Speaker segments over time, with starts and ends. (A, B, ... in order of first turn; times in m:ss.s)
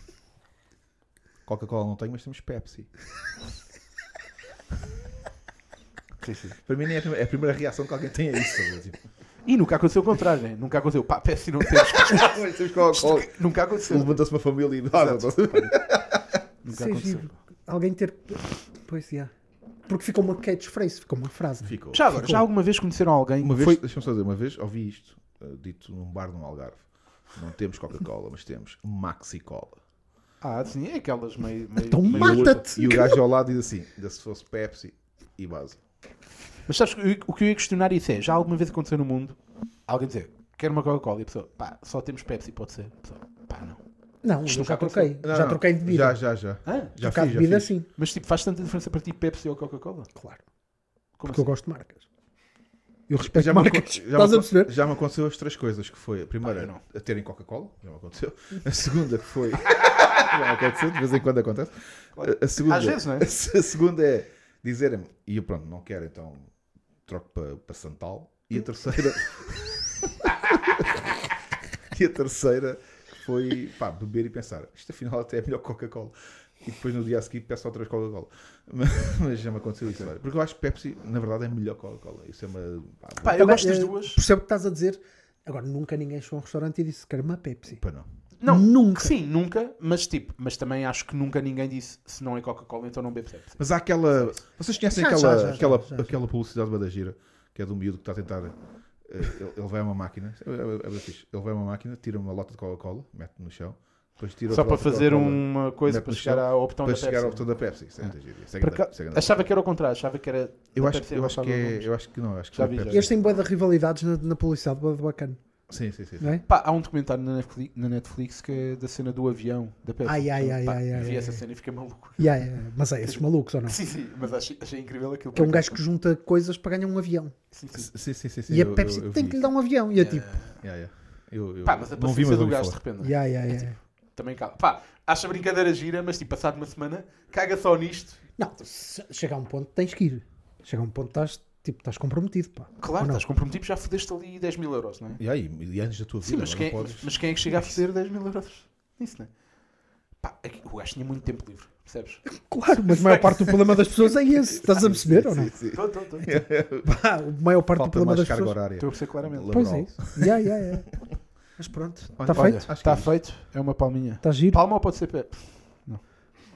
0:01.4-0:02.9 A
0:06.2-0:06.6 B
0:06.6-0:09.0 A
0:09.4-0:14.1 B
0:11.8-0:13.3 A
0:13.9-0:16.4 A
0:14.9-0:15.7 B
0:16.6-0:17.3 B
0:16.7-0:19.3 C
0:19.9-0:22.4 C
0:21.6-0:22.0 A
0:21.9-0:23.8 B
0:23.4-0:29.8 A
0:30.4-0:32.7 B
0:31.9-0:33.2 C
0:32.1-0:35.8 A
0:36.7-0:43.8 B
0:44.2-0:46.2 C
0:44.4-0:45.2 B
0:45.2-0:47.5 A
0:46.6-0:50.1 B
0:47.0-0:47.9 C
0:50.1-0:50.4 C
0:51.2-0:51.5 B
0:51.2-0:52.0 C
0:53.1-0:54.7 C
0:53.2-1:06.5 A
0:56.4-0:56.8 B
1:02.2-1:03.3 B
1:07.1-1:11.3 A
1:11.9-1:23.6 A
1:23.2-1:24.2 B
1:23.4-1:27.8 C
1:27.8-1:28.1 A
1:28.4-1:33.6 B
1:28.5-1:29.1 C
1:33.6-1:49.4 A
1:34.9-1:36.1 C
1:44.5-1:47.4 B
1:48.0-1:51.9 B
1:50.7-1:53.1 A
1:52.5-1:53.1 B
1:52.9-1:55.4 C
1:55.7-1:56.4 A
1:56.5-2:02.4 B
2:00.0-2:01.4 C
2:02.2-2:03.8 C
2:03.0-2:05.7 B
2:05.4-2:07.3 C
2:07.5-2:07.9 B
2:07.7-2:09.4 A
2:08.5-2:10.3 C
2:09.9-2:10.6 B
2:10.6-2:12.8 A
2:11.6-2:18.2 B
2:13.0-2:13.8 C
2:18.4-2:23.2 C
2:22.8-2:25.2 B
2:25.2-2:27.1 A
2:26.2-2:29.3 B
2:30.2-2:32.2 B
2:32.3-2:35.6 C
2:32.8-2:33.8 B
2:34.6-2:36.9 A
2:35.7-2:36.3 B
2:36.8-2:38.5 C
2:37.7-2:40.3 A
2:38.8-2:39.8 B
2:39.5-2:40.9 C
2:41.6-2:42.6 C
2:42.2-2:43.1 A
2:42.3-2:46.0 B
2:44.2-2:44.6 C